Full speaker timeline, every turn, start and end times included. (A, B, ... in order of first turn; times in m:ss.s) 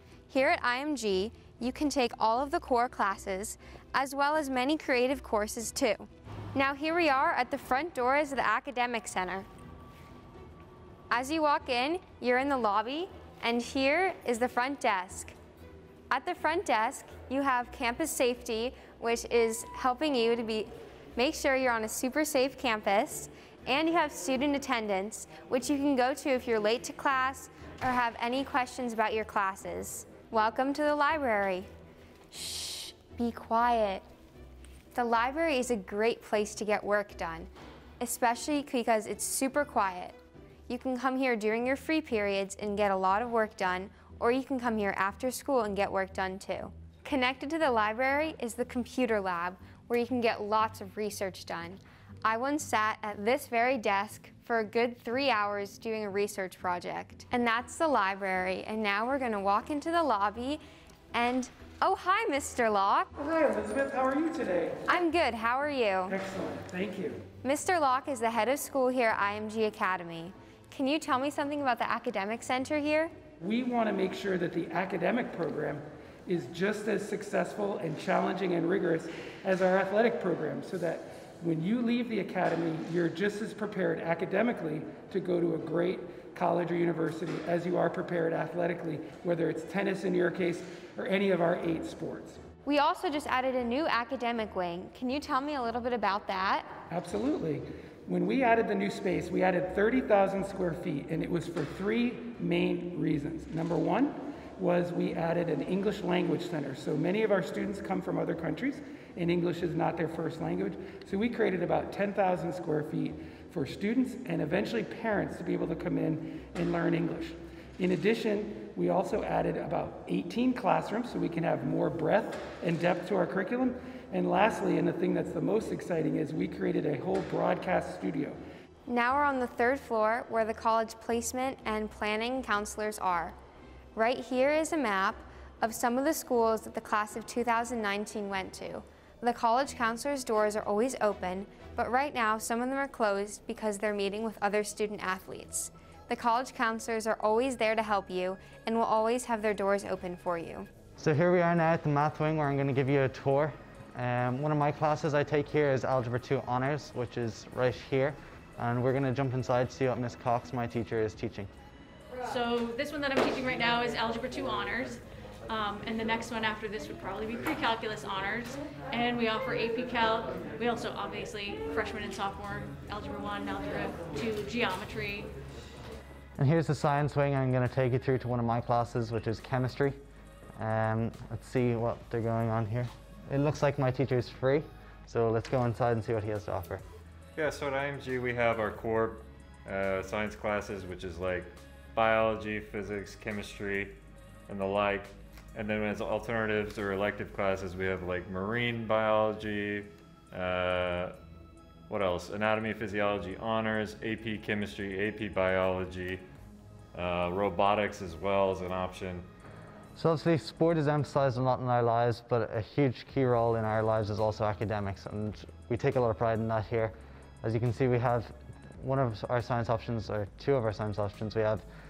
0:00.3-0:09.5 A
0:11.1-0:15.4 A
0:16.1-0:31.7 A
0:32.3-0:34.0 A
0:34.9-0:37.5 A
0:38.0-0:40.2 A
0:40.7-1:00.6 A
1:01.1-1:03.1 A
1:03.2-1:05.0 B
1:04.9-1:06.1 A
1:06.1-1:07.2 B
1:07.4-1:13.1 A
1:13.4-1:32.4 B
1:32.6-1:36.7 A
1:36.9-2:08.4 B
2:08.8-2:13.4 A
2:13.9-2:30.7 A
2:31.0-2:41.5 C
2:42.2-2:55.3 D
2:56.4-3:00.0 C
3:00.6-3:06.8 C
3:07.4-3:09.1 E
3:09.7-3:13.9 E
3:14.5-3:21.1 E
3:21.9-3:26.2 E
3:26.9-3:29.2 E
3:29.9-3:41.6 C